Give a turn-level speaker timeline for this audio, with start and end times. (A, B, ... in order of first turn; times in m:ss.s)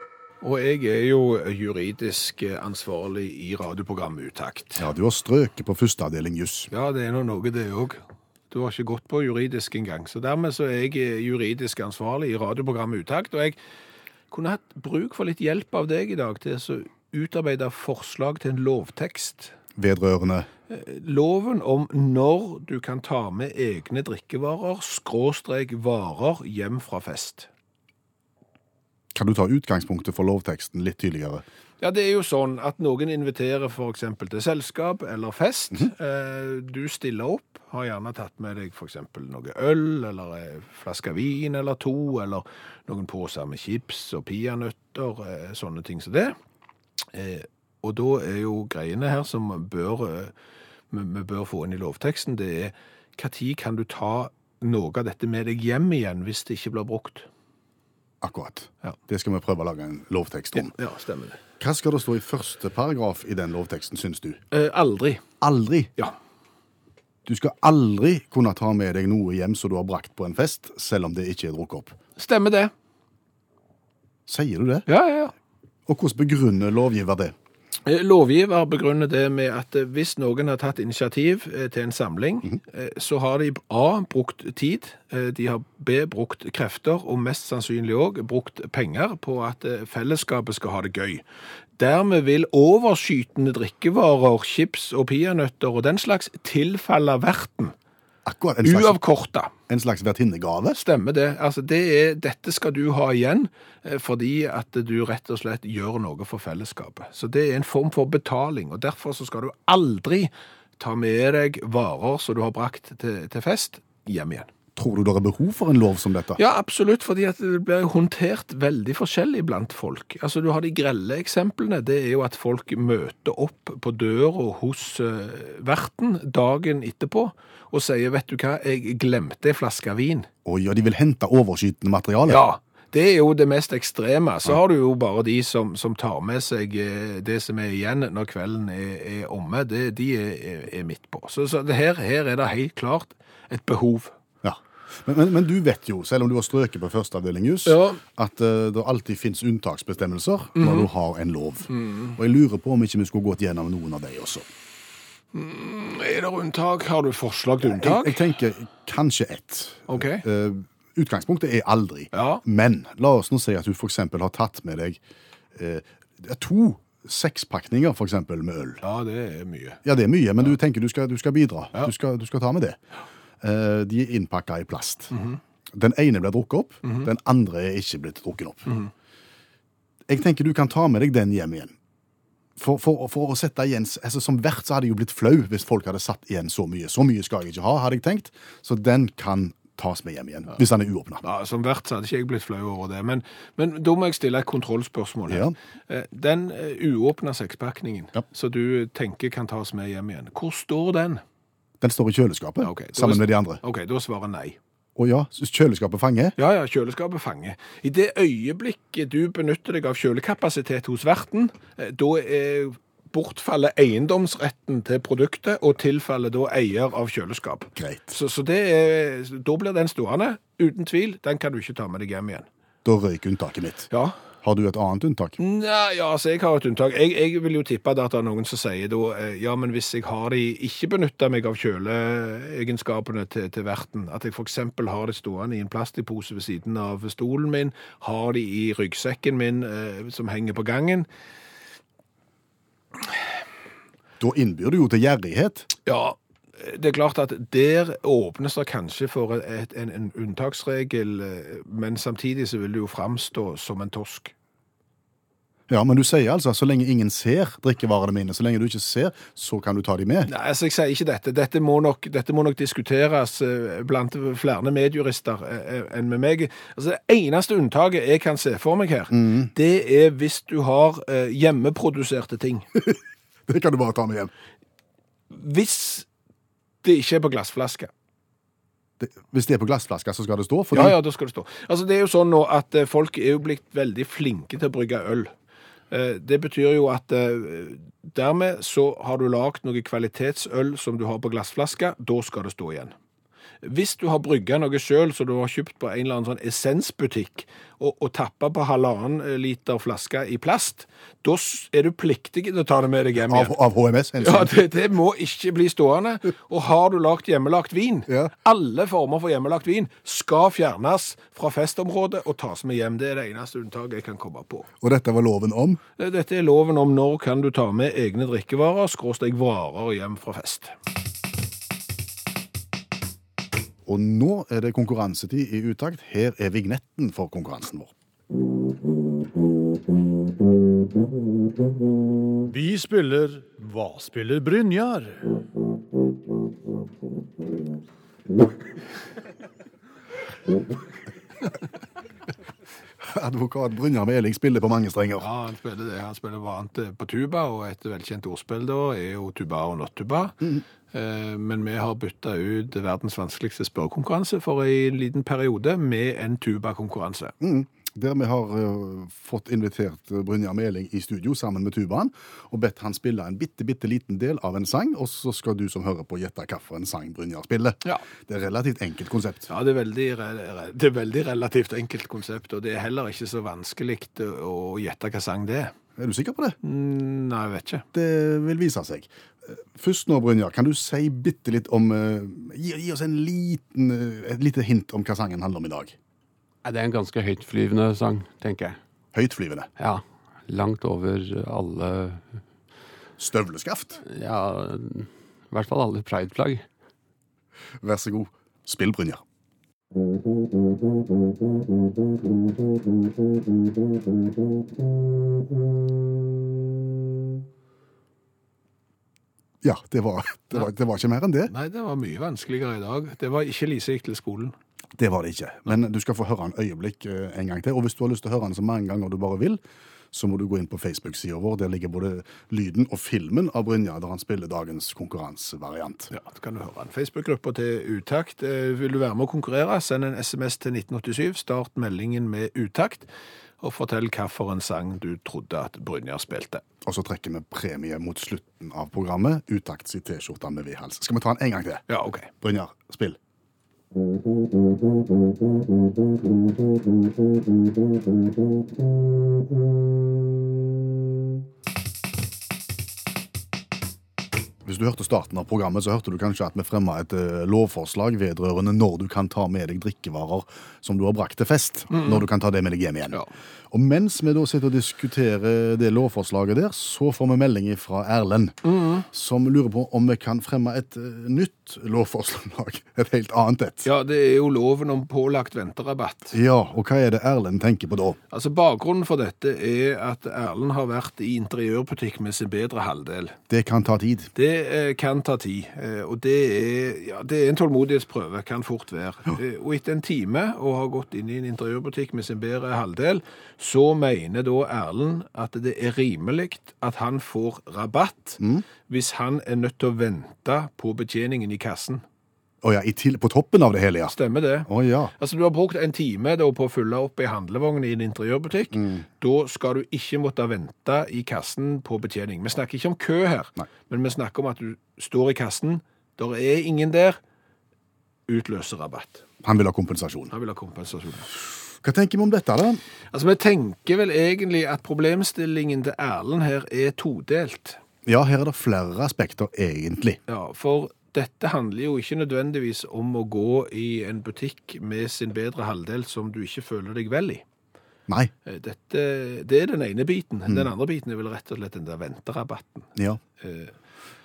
0:00.4-0:04.8 A
0:04.8-0:06.7 B
0:06.7-0:13.6 A
0:14.3-0:19.5 A
0:19.8-0:20.5 B
0:20.7-0:27.5 A
0:29.1-0:31.4 B
0:31.8-0:46.4 A
0:47.1-0:50.3 A
0:50.9-0:57.3 A
0:58.2-1:00.7 B
1:00.6-1:01.4 A
1:01.6-1:04.4 B
1:04.5-1:05.2 A
1:05.4-1:05.9 B
1:07.3-1:12.0 B
1:12.2-1:12.7 A
1:14.3-1:14.9 B
1:14.9-1:15.3 A
1:15.9-1:17.3 B
1:17.9-1:31.2 A
1:31.8-1:37.7 A
1:38.2-1:39.0 B
1:38.6-1:39.5 A
1:39.7-1:40.8 B
1:40.8-1:54.5 A
1:54.8-1:56.4 B
1:56.4-2:10.3 A
2:10.4-2:12.4 B
2:12.3-2:24.1 A
2:24.4-2:34.5 B
2:27.7-2:28.0 A
2:30.6-2:30.9 A
2:31.7-2:32.1 A
2:35.3-2:38.2 A
2:37.6-2:45.0 B
2:39.9-2:40.2 A
2:42.1-2:42.4 A
2:45.6-2:48.8 B
2:48.8-2:49.8 A
2:49.8-2:52.8 B
2:53.4-2:55.1 B
2:55.1-2:55.4 A
2:55.7-2:58.7 B
3:00.1-3:01.8 B
3:02.6-3:11.2 B
3:11.2-3:21.2 A
3:15.3-3:15.6 B
3:21.8-3:23.6 B
3:22.6-3:24.6 A
3:25.0-3:26.4 B
3:26.4-3:42.5 A
3:37.8-3:38.1 B
3:42.8-3:43.9 B
3:43.9-3:44.2 A
3:44.4-3:45.4 B
3:45.4-4:01.1 A
4:04.2-4:05.7 B
4:05.9-4:14.3 A
4:15.7-4:20.3 B
4:20.3-4:32.7 A
4:29.1-4:29.5 B
4:33.5-4:34.3 B
4:35.3-4:36.1 A
4:36.8-4:37.9 A
4:39.0-4:41.0 B
4:40.7-4:45.3 A
4:45.9-4:52.9 A
4:53.6-5:03.5 A
5:03.3-5:04.6 B
5:04.2-5:14.7 A
5:14.8-5:15.8 B
5:16.0-5:20.7 A
5:23.9-5:27.9 B
5:32.5-5:35.4 C
5:43.0-5:45.3 B
5:45.2-5:57.3 A
5:57.4-6:09.5 B
6:09.5-6:15.7 A
6:16.0-6:16.6 B
6:16.6-6:17.8 A
6:17.9-6:26.0 B
6:26.6-6:28.8 D
6:29.1-6:29.7 B
6:29.8-6:32.2 D
6:33.2-6:34.0 B
6:34.1-6:36.6 D
6:37.8-6:39.2 B
6:49.6-6:51.5 B
6:51.5-6:54.6 A
6:55.0-6:59.6 B
7:00.1-7:06.1 B
7:06.1-7:13.1 A
7:13.6-7:16.6 A
7:16.8-7:21.8 B
7:21.9-7:22.3 A
7:22.4-7:23.2 B
7:34.6-7:53.9 B
7:41.9-7:42.2 A
7:48.6-7:49.0 A
7:53.8-7:56.4 A
7:56.3-7:58.2 B
7:58.3-8:03.4 A
8:03.5-8:04.3 B
8:04.4-8:22.0 A
8:18.4-8:18.6 B
8:22.6-8:24.2 B
8:24.1-8:37.2 A
8:24.7-8:25.1 B
8:28.7-8:29.0 B
8:38.3-8:39.2 A
8:39.4-8:40.3 B
8:40.3-8:41.3 A
8:41.8-8:42.8 B
8:43.1-8:47.8 A
8:48.1-8:50.2 B
8:50.3-8:57.4 A
8:58.5-9:03.7 A